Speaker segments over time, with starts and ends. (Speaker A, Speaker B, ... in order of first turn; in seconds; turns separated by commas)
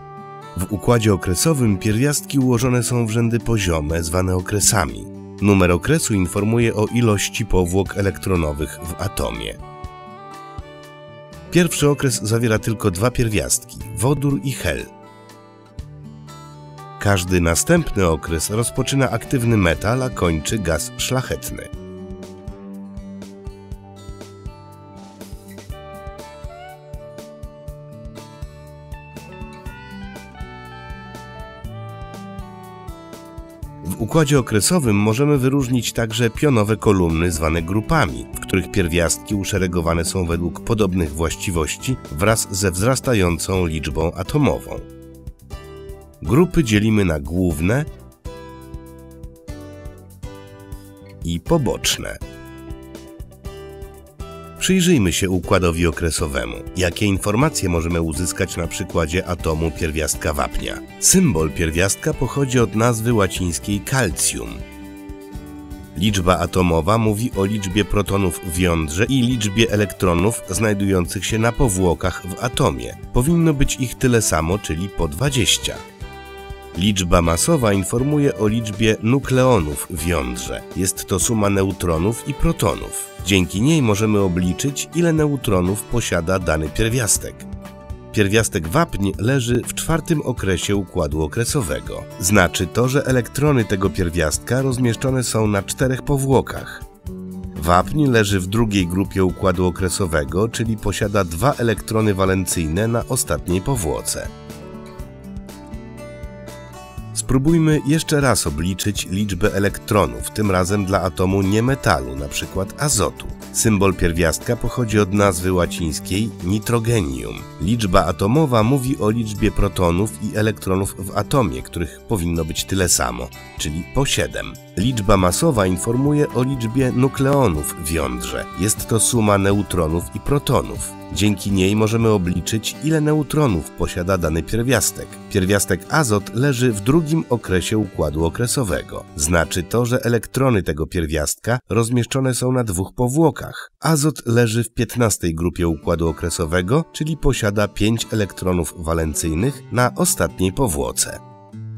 Speaker A: 0.6-9.6, Speaker A: 11.5-14.9, Speaker A: 17.0-21.7, Speaker A: 33.8-44.9, Speaker A: 46.2-47.9, Speaker A: 51.2-52.2, Speaker A: 54.6-64.6, Speaker A: 66.0-75.8, Speaker A: 76.7-87.5, Speaker A: 88.1-96.8, Speaker A: 97.5-104.3, Speaker A: 107.1-151.2